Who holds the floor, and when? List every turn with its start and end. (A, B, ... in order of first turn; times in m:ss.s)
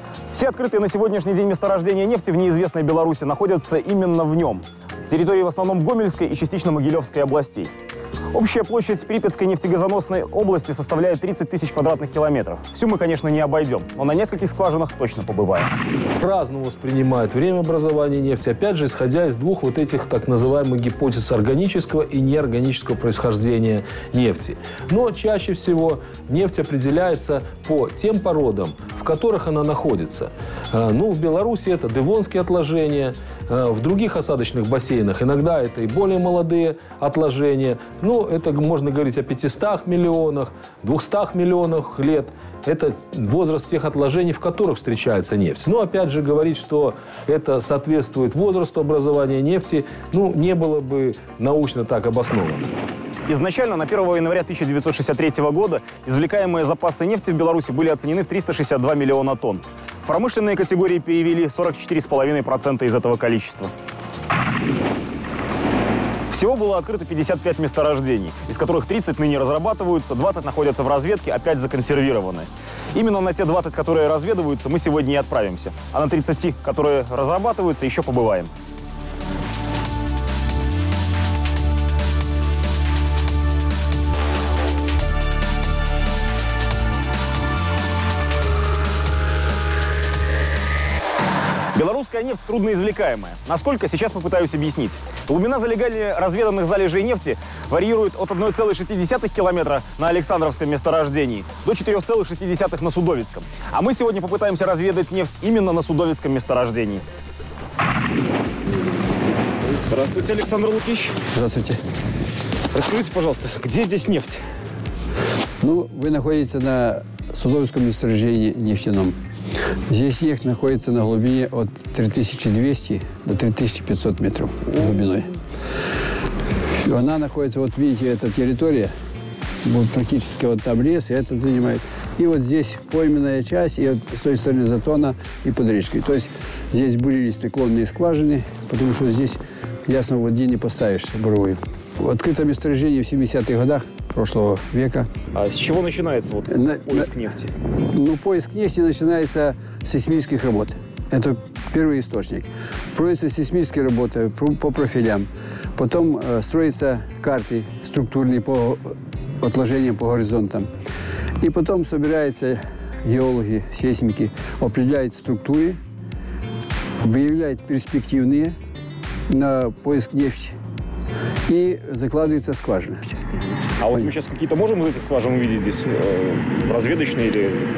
0:00.3-0:07.7 A
0:08.3-0:15.7 A
0:16.2-0:52.7 B
0:53.3-1:03.7 A
1:06.3-1:18.5 A
1:31.7-1:47.0 A
1:49.7-1:51.1 A
1:51.3-1:51.8 C
1:52.7-1:54.4 A
1:55.6-1:59.2 C
1:59.9-2:05.3 C
2:06.7-2:08.9 C
2:09.6-2:25.1 C
2:25.3-2:27.5 A
2:26.5-2:27.1 C
2:27.9-2:40.7 C
2:41.4-2:45.8 C
2:47.0-2:48.5 C
2:49.3-2:50.6 C
2:51.5-2:53.2 C
2:53.8-2:57.7 A